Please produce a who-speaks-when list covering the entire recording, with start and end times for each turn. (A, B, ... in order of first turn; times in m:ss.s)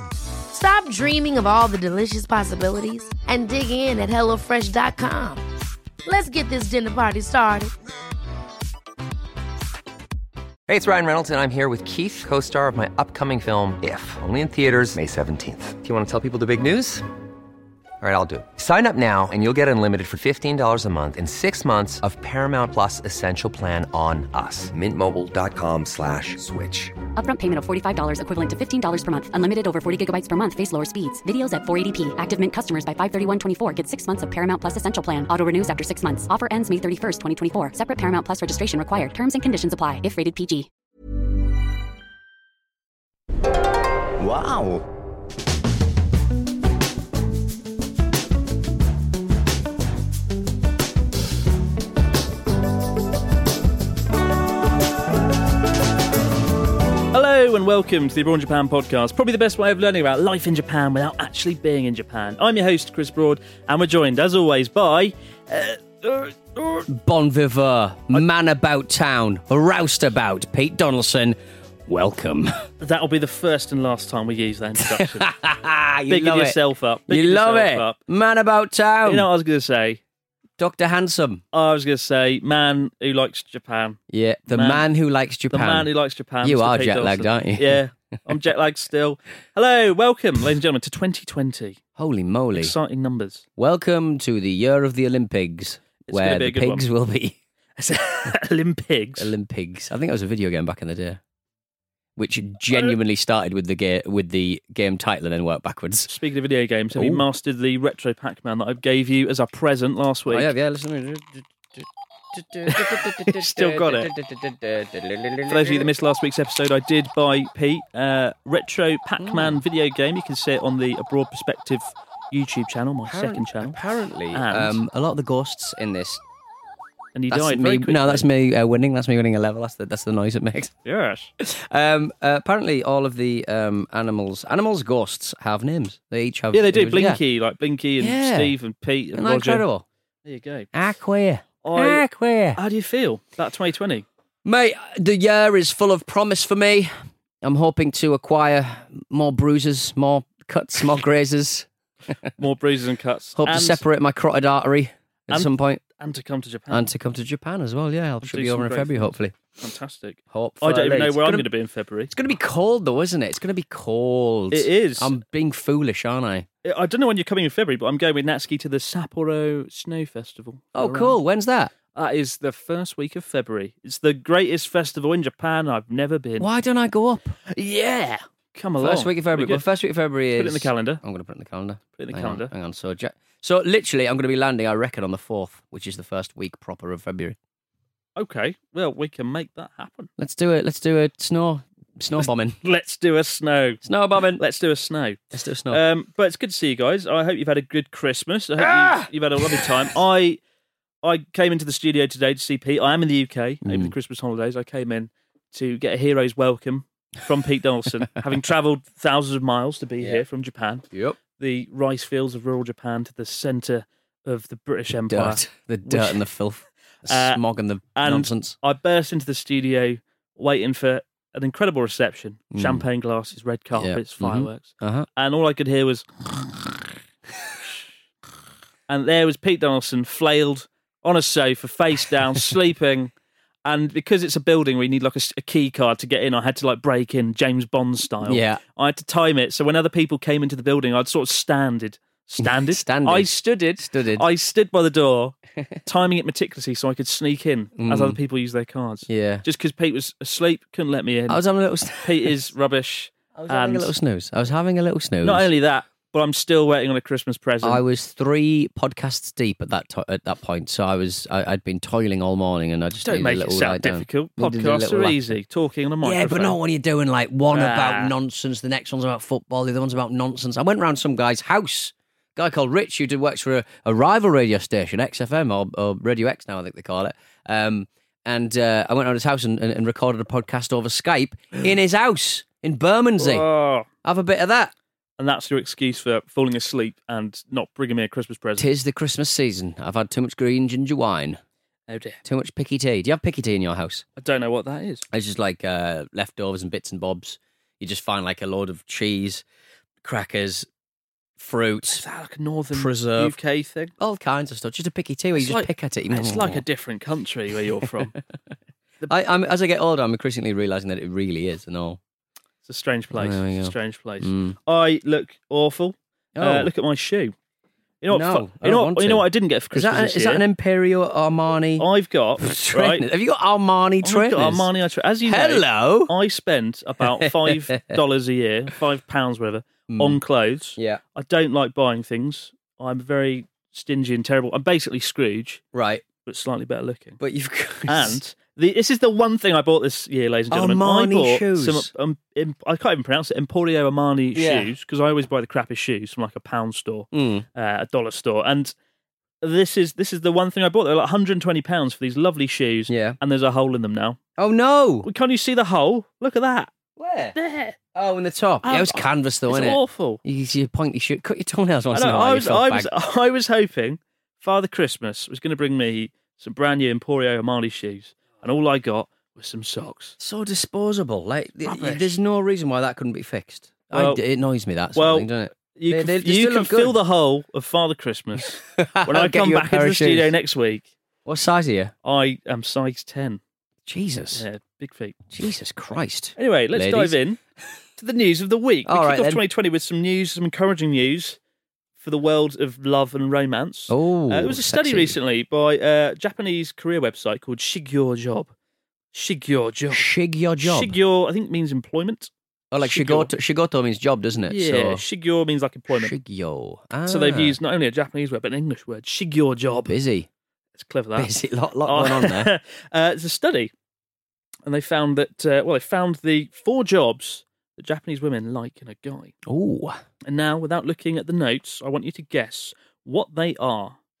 0:00.5-0:05.4 A
0:06.0-0:07.7 A
0:10.7-0:17.0 B
0:18.0-0:27.0 B
0:27.2-0:40.7 C
0:57.1-1:06.8 D
1:06.9-1:12.5 E
1:12.8-1:15.3 D
1:14.8-1:19.3 E
1:16.1-1:18.0 D
1:19.0-1:20.0 D
1:20.6-1:21.4 E
1:21.5-1:24.0 D
1:24.1-1:25.9 E
1:24.5-1:24.8 D
1:25.5-1:31.8 D
1:26.4-1:27.8 E
1:32.0-1:32.8 E
1:32.5-1:33.4 D
1:33.6-1:37.4 E
1:36.1-1:36.9 D
1:37.8-1:39.3 D
1:39.2-1:41.2 E
1:42.2-1:46.1 E
1:46.1-1:50.5 D
1:46.9-1:47.2 E
1:50.3-1:55.9 E
1:52.7-1:54.1 D
1:55.5-2:03.8 D
1:59.2-1:59.6 E
2:03.0-2:06.2 E
2:04.3-2:04.8 D
2:07.1-2:08.2 D
2:07.3-2:10.7 E
2:10.8-2:11.3 D
2:11.4-2:17.2 E
2:16.5-2:19.6 D
2:18.0-2:18.5 E
2:19.1-2:19.8 E
2:20.2-2:20.7 D
2:20.7-2:22.6 E
2:21.6-2:22.0 D
2:22.6-2:24.0 D
2:24.4-2:31.7 E
2:32.4-2:33.8 D
2:33.4-2:35.8 E
2:35.3-2:36.9 D
2:36.7-2:39.3 E
2:38.2-2:42.1 D
2:40.3-2:41.5 E
2:42.1-2:46.5 E
2:44.5-2:45.1 D
2:46.6-2:51.2 D
2:50.7-2:51.7 E
2:51.9-2:56.5 D
2:56.4-2:57.3 E
2:57.5-2:59.6 D
2:58.8-3:07.4 E
3:00.3-3:01.0 D
3:02.0-3:02.5 D
3:08.2-3:10.1 D
3:10.2-3:12.6 E
3:12.2-3:13.8 D
3:13.8-3:14.4 E
3:14.3-3:20.4 D
3:15.3-3:15.8 E
3:18.6-3:19.6 E
3:21.0-3:36.2 D
3:23.6-3:23.9 E
3:30.0-3:30.2 E
3:30.9-3:31.2 E
3:35.0-3:38.5 E
3:37.0-3:37.4 D
3:38.0-3:46.7 D
3:42.5-3:42.8 E
3:43.7-3:45.1 E
3:48.9-3:53.1 D
3:53.6-4:11.4 D
3:58.2-3:58.6 E
4:02.4-4:04.3 E
4:07.8-4:08.2 E
4:09.1-4:09.4 E
4:11.3-4:12.4 E
4:12.0-4:13.9 D
4:13.3-4:15.5 E
4:15.2-4:17.8 D
4:17.6-4:25.3 E
4:23.0-4:26.6 D
4:26.0-4:43.4 E
4:27.5-4:28.1 D
4:43.2-4:43.9 D
4:44.0-4:44.7 E
4:45.2-4:48.7 D
4:48.6-4:51.4 E
4:51.9-4:52.2 D
4:52.2-4:54.0 E
4:54.2-4:55.0 D
4:55.1-4:59.4 E
5:00.0-5:00.7 E
5:01.4-5:02.0 E
5:01.9-5:03.9 D
5:02.7-5:03.4 E
5:04.0-5:06.6 E
5:05.4-5:08.2 D
5:09.1-5:12.0 E
5:12.6-5:17.3 D
5:13.1-5:14.6 E
5:16.3-5:16.7 E
5:18.0-5:20.4 D
5:18.1-5:21.9 E
5:21.8-5:23.1 D
5:22.4-5:24.7 E
5:24.0-5:35.6 D
5:25.2-5:26.1 E
5:27.2-5:27.6 E
5:29.9-5:30.2 E
5:30.8-5:31.0 E
5:35.7-5:36.0 E
5:36.2-5:37.2 D
5:37.2-5:38.2 E
5:37.8-5:48.7 D
5:40.5-5:41.9 E
5:44.3-5:44.7 E
5:47.1-5:47.4 E
5:49.4-5:54.2 D
5:52.9-5:53.2 E
5:54.4-5:55.1 E
5:55.0-5:56.7 D
5:57.0-5:57.4 E
5:57.3-5:57.8 D
5:57.9-6:02.9 E
5:58.6-6:00.2 D
6:01.9-6:10.2 D
6:10.2-6:17.0 E
6:11.6-6:12.1 D
6:13.9-6:14.2 D
6:14.9-6:20.8 D
6:18.8-6:20.3 E
6:21.2-6:21.9 E
6:22.0-6:23.4 D
6:23.8-6:24.4 E
6:24.3-6:25.2 D
6:25.3-6:27.2 E
6:26.4-6:27.4 D
6:28.0-6:31.4 D
6:28.8-6:29.4 E
6:32.0-6:38.5 D
6:33.9-6:35.2 E
6:39.1-6:40.1 D
6:39.9-6:41.0 E
6:40.6-6:43.3 D
6:42.7-6:45.0 E
6:44.5-6:46.2 D
6:45.9-6:47.6 E
6:47.1-6:49.9 D
6:49.8-6:50.3 E
6:50.8-6:51.3 D
6:51.2-6:52.5 E
6:51.8-6:53.7 D
6:54.6-6:59.3 D
6:59.4-7:00.0 E
7:00.2-7:04.0 D